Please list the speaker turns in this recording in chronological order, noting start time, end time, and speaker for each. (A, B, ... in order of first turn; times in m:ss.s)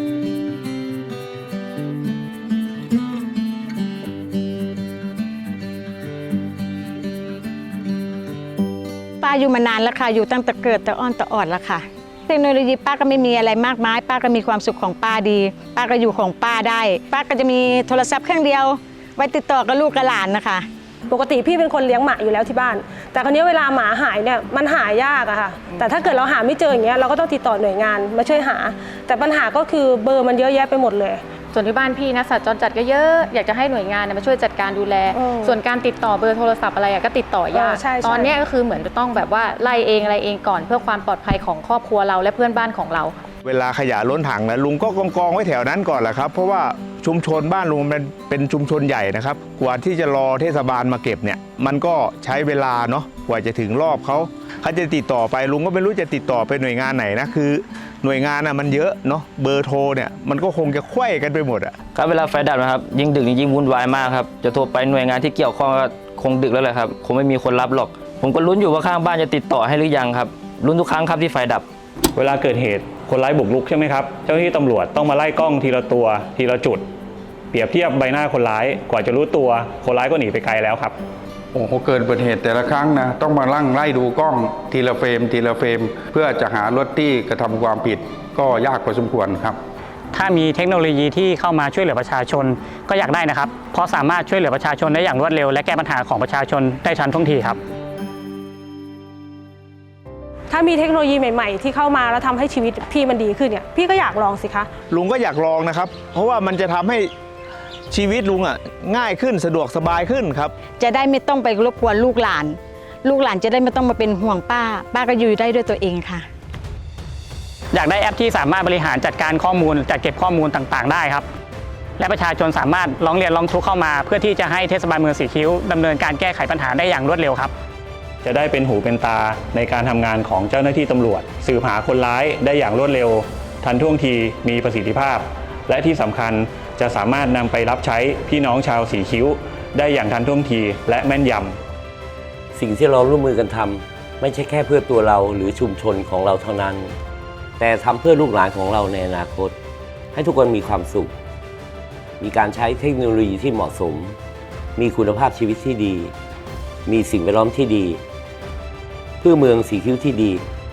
0:09.2-0:20.7 A
0:21.1-0:31.2 B
0:31.5-0:43.1 C
0:35.1-0:35.5 B
0:37.5-0:38.3 B
0:43.4-1:01.7 D
1:02.0-1:11.6 E
1:12.2-1:16.8 F
1:17.5-1:21.0 F
1:21.5-1:29.6 G
1:30.1-1:37.6 H
1:40.5-1:44.7 B
1:44.9-1:47.1 D
1:47.9-1:50.5 D
1:50.8-1:56.2 A
1:57.7-2:01.2 H
2:02.0-2:07.5 H
2:08.2-2:21.6 F
2:22.5-2:27.0 I
2:27.6-2:29.6 I
2:30.1-2:31.2 I
2:32.2-2:34.2 I
2:34.8-2:36.1 I
2:36.8-2:38.0 I
2:39.2-2:40.5 I